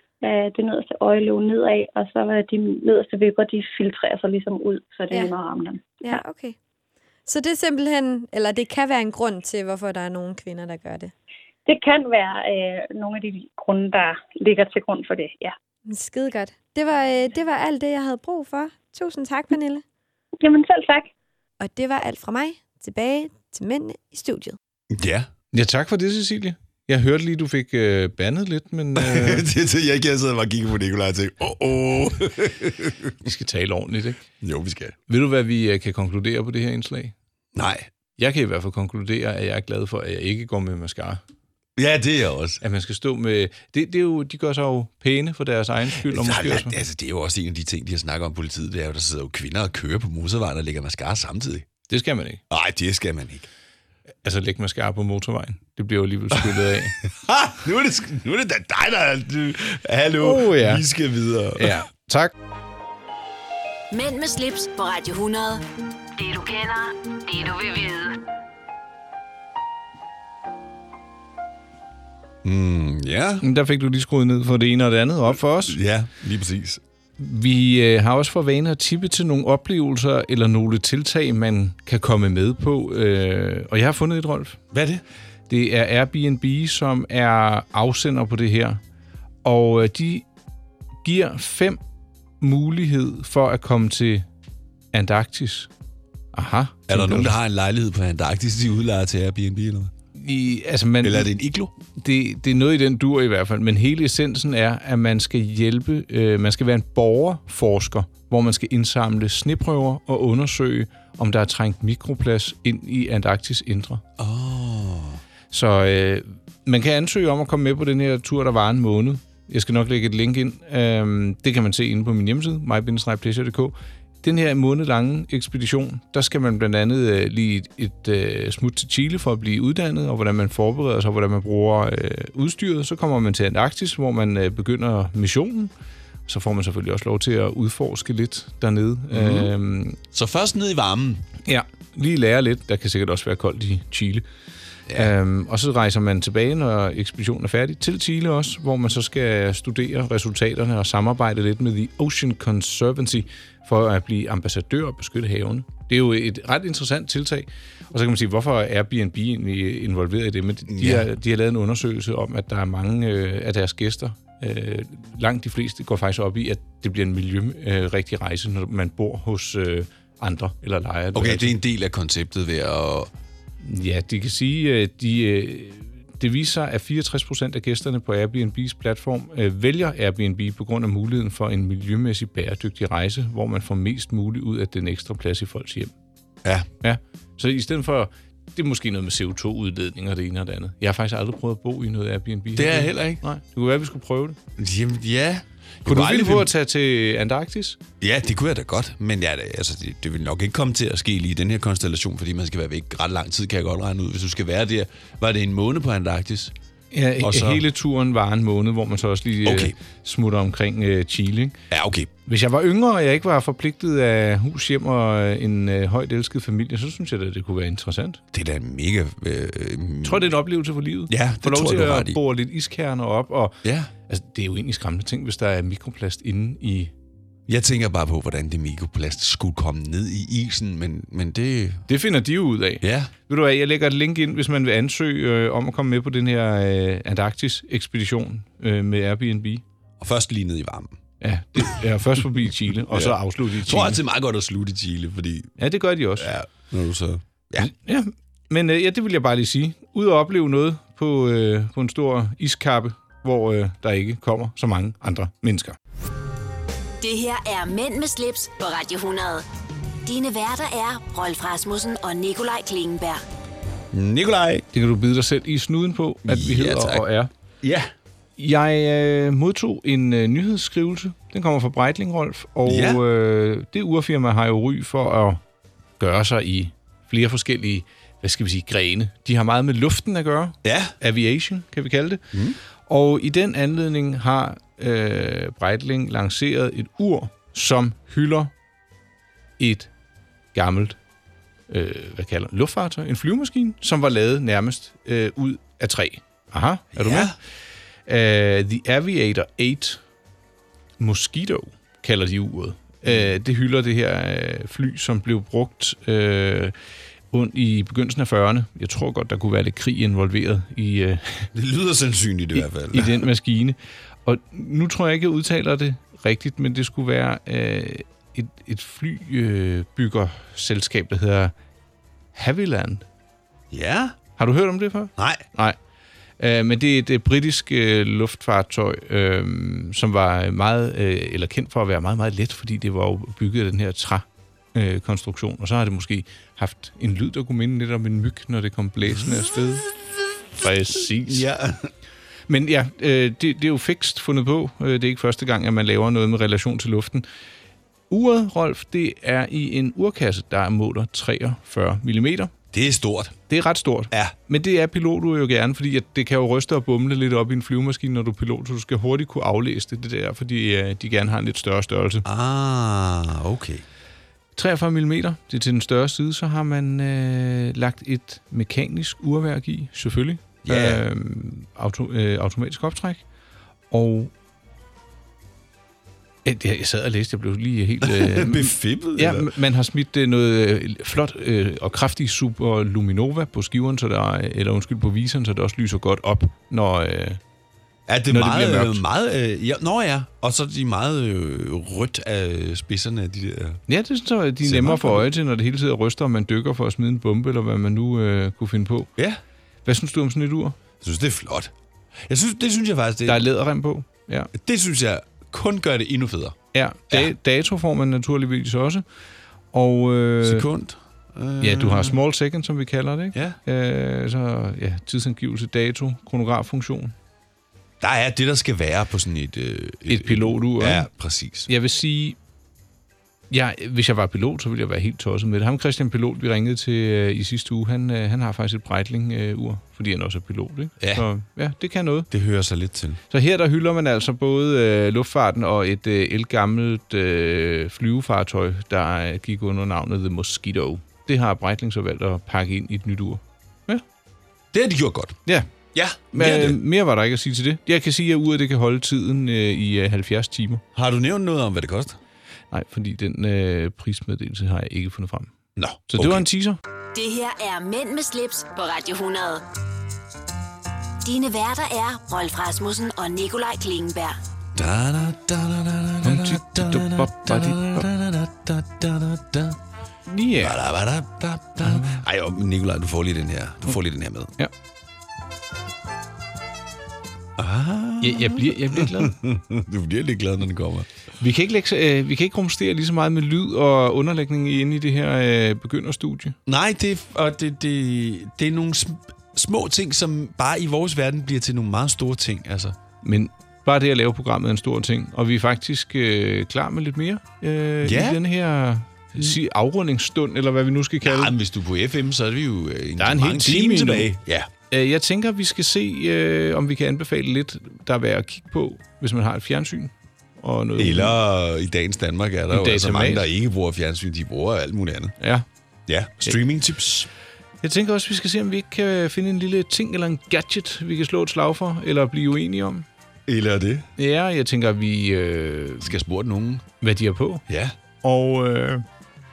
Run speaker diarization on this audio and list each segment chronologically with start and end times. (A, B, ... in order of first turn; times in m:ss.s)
0:00.2-0:06.2 A
0:06.0-0:06.6 B
0:07.3-0:11.1 B
0:11.7-0:15.5 A
0:15.9-0:19.8 B
0:20.4-0:21.1 A
0:21.6-0:24.6 B
0:24.9-0:25.3 C
0:25.5-0:29.5 D
0:29.0-0:33.2 C
0:33.2-0:34.2 D
0:34.4-0:35.0 C
0:35.1-0:37.2 D
0:37.6-0:37.9 C
0:38.2-0:41.2 D
0:41.8-0:42.6 C
0:42.6-0:46.8 D
0:46.0-0:51.7 C
0:51.9-0:52.4 D
0:52.5-0:53.5 C
0:54.2-0:57.0 D
0:57.1-1:01.8 C
1:00.2-1:00.8 D
1:01.6-1:02.3 D
1:03.9-1:05.6 E
1:06.2-1:08.2 E
1:12.4-1:13.4 C
1:13.4-1:15.8 D
1:15.7-1:16.8 C
1:17.2-1:24.6 D
1:24.7-1:25.0 C
1:25.5-1:28.8 D
1:29.4-1:30.3 D
1:31.0-1:31.8 D
1:32.4-1:34.3 D
1:34.9-1:35.7 D
1:36.3-1:37.4 D
1:36.9-1:39.9 C
1:40.2-1:41.3 D
1:41.0-1:41.7 C
1:42.0-1:54.0 D
1:54.2-1:55.2 C
1:55.5-2:15.7 D
2:16.3-2:20.0 D
2:19.1-2:19.5 C
2:20.1-2:21.2 C
2:21.4-2:24.2 D
2:25.0-2:51.6 D
2:40.7-2:41.1 C
2:51.1-2:53.1 C
2:53.6-3:05.9 D
3:06.8-3:14.4 D
3:12.6-3:13.2 C
3:14.6-3:16.5 C
3:15.9-3:17.8 D
3:18.0-3:26.5 C
3:26.9-3:31.6 D
3:27.2-3:27.6 C
3:29.4-3:29.8 C
3:31.7-3:32.1 C
3:32.3-3:38.2 D
3:38.3-3:40.3 C
3:40.0-3:46.9 D
3:41.1-3:42.2 C
3:43.6-3:43.9 C
3:47.5-3:51.9 C
3:51.9-3:59.6 D
3:52.8-3:53.1 C
4:00.0-4:01.0 C
4:01.2-4:04.0 D
4:02.9-4:05.6 C
4:05.6-4:06.3 D
4:06.2-4:07.7 C
4:07.6-4:15.8 D
4:17.0-4:19.5 E
4:20.0-4:23.2 E
4:23.9-4:24.6 C
4:24.7-4:27.3 D
4:26.3-4:27.1 C
4:27.6-4:27.9 C
4:28.4-4:35.4 D
4:32.7-4:33.0 C
4:36.0-4:42.2 D
4:40.6-4:41.0 C
4:42.3-4:42.6 C
4:42.9-4:48.5 D
4:49.6-4:49.9 D
4:50.5-4:51.0 D
4:51.7-4:57.3 D
4:56.9-4:57.4 C
4:58.1-5:00.0 D
5:01.0-5:06.7 D
5:07.3-5:11.5 D
5:11.5-5:13.2 C
5:12.6-5:21.5 D
5:22.3-5:23.0 D
5:23.7-5:24.2 C
5:24.4-5:25.8 D
5:25.2-5:25.4 C
5:26.4-5:39.9 D
5:40.6-5:41.5 D
5:41.1-5:41.9 C
5:42.5-5:47.3 D
5:48.1-5:52.5 D
5:52.7-5:53.4 C
5:53.5-6:02.3 D
6:02.2-6:03.8 C
6:04.6-6:13.2 D
6:10.6-6:11.0 C
6:13.9-6:14.3 D
6:16.4-6:27.4 D
6:18.0-6:19.5 C
6:28.1-6:33.8 C
6:28.3-6:29.0 D
6:33.9-6:39.1 D
6:34.6-6:35.3 C
6:39.8-6:40.8 D
6:41.0-6:41.7 C
6:42.3-6:43.5 C
6:43.3-6:44.5 D
6:44.5-6:46.6 C
6:46.7-6:49.0 D
6:49.7-6:50.7 D
6:50.4-6:52.2 C
6:51.6-6:57.1 D
6:58.0-7:01.7 C
7:00.1-7:01.1 D
7:01.7-7:02.4 D
7:03.5-7:12.3 D
7:11.0-7:11.3 C
7:12.3-7:13.2 C
7:13.3-7:24.0 D
7:24.7-7:25.4 C
7:25.9-7:26.8 C
7:26.3-7:30.8 D
7:30.9-7:32.2 C
7:32.7-7:35.5 D
7:35.8-7:36.5 C
7:36.1-7:36.8 D
7:37.1-7:39.6 E
7:41.2-7:44.4 E
7:44.8-7:49.8 C
7:46.2-7:48.1 D
7:50.3-7:50.8 D
7:50.6-7:54.5 C
7:51.8-7:52.2 D
7:57.6-8:01.1 C
7:58.2-7:59.4 D
8:01.4-8:06.6 D
8:06.7-8:13.0 C
8:13.2-8:21.5 D
8:18.0-8:18.4 C
8:21.2-8:24.7 C
8:23.2-8:24.3 D
8:24.9-8:31.4 D
8:31.0-8:35.4 C
8:32.7-8:33.5 D
8:35.4-8:35.7 D
8:36.1-8:37.3 C
8:37.8-8:43.1 D
8:43.5-8:44.1 C
8:44.2-8:46.2 D
8:46.0-8:46.9 C
8:47.0-8:47.6 D
8:47.7-8:48.0 C
8:48.2-8:49.0 D